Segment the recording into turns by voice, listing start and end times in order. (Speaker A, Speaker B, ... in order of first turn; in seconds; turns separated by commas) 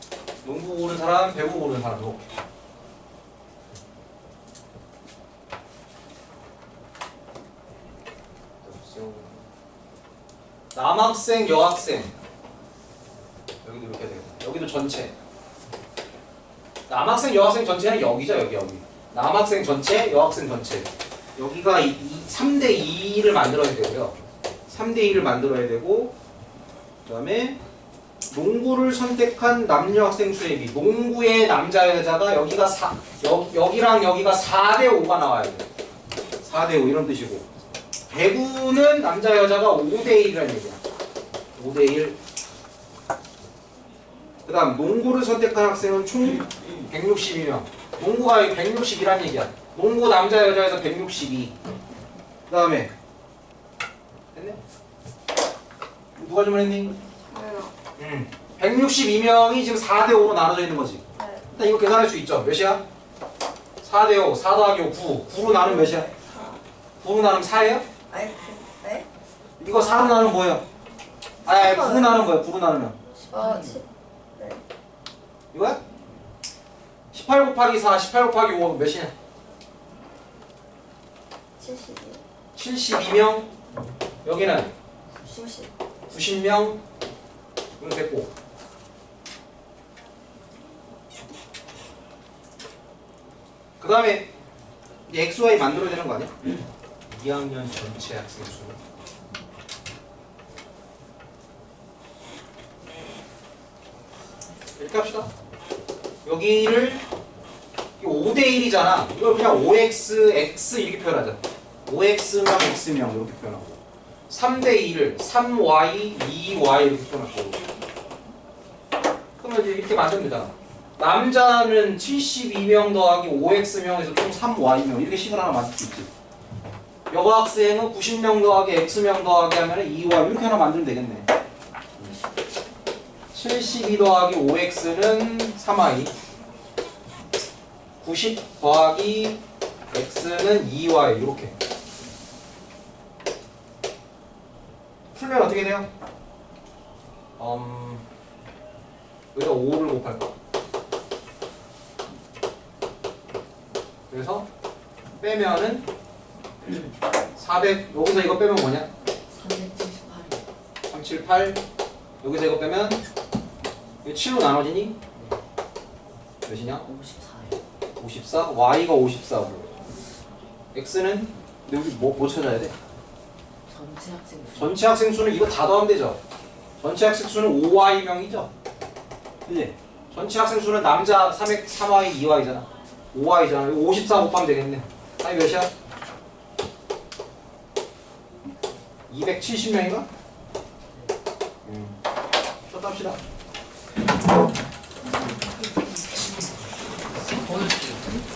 Speaker A: 0.4-2.3, Speaker A: 8.6-9.4, Speaker A: 10.7-12.1, Speaker A: 13.6-15.1, Speaker A: 16.9-26.1, Speaker A: 27.0-27.6, Speaker A: 28.3-35.7, Speaker A: 36.4-37.5, Speaker A: 38.1-40.8, Speaker A: 41.5-42.2, Speaker A: 44.5-51.5, Speaker A: 52.5-52.9, Speaker A: 54.3-54.6, Speaker A: 56.1-57.0, Speaker B: 57.3-57.7, Speaker A: 58.0-62.8, Speaker B: 61.2-61.4, Speaker A: 63.8-66.1, Speaker B: 65.4-66.6, Speaker A: 67.0-67.8, Speaker B: 68.1-69.1, Speaker A: 69.6-70.6, Speaker A: 71.4-73.0, Speaker B: 71.5-72.2, Speaker B: 73.2-74.6, Speaker C: 73.4-73.8, Speaker A: 75.5-75.8, Speaker A: 77.1-79.1, Speaker B: 81.6-82.2, Speaker A: 82.5-83.5, Speaker A: 84.2-84.7, Speaker B: 85.2-85.7, Speaker A: 86.1-86.8, Speaker A: 87.8-88.3, Speaker A: 93.8-94.3, Speaker A: 95.1-96.3, Speaker A: 97.1-98.8, Speaker A: 104.8-105.3, Speaker A: 106.2-107.0, Speaker A: 108.0-117.7, Speaker A: 119.4-126.1, Speaker A: 127.1-131.3, Speaker A: 133.3-136.1, Speaker A: 138.0-141.5, Speaker A: 145.1-145.9, Speaker A: 147.4-148.0, Speaker A: 149.3-150.3, Speaker A: 154.1-154.5, Speaker A: 155.2-155.9, Speaker A: 157.3-158.9, Speaker C: 159.3-160.5, Speaker A: 160.9-161.6, Speaker A: 162.2-163.0, Speaker A: 164.0-165.0, Speaker A: 166.4-166.9, Speaker C: 166.8-167.6, Speaker A: 168.0-169.7, Speaker A: 170.7-172.8, Speaker C: 173.7-174.8, Speaker A: 174.5-176.2, Speaker A: 176.8-178.5, Speaker A: 179.5-185.7, Speaker A: 189.1-190.1, Speaker A: 191.6-192.0, Speaker A: 192.7-193.2, Speaker C: 197.5-197.9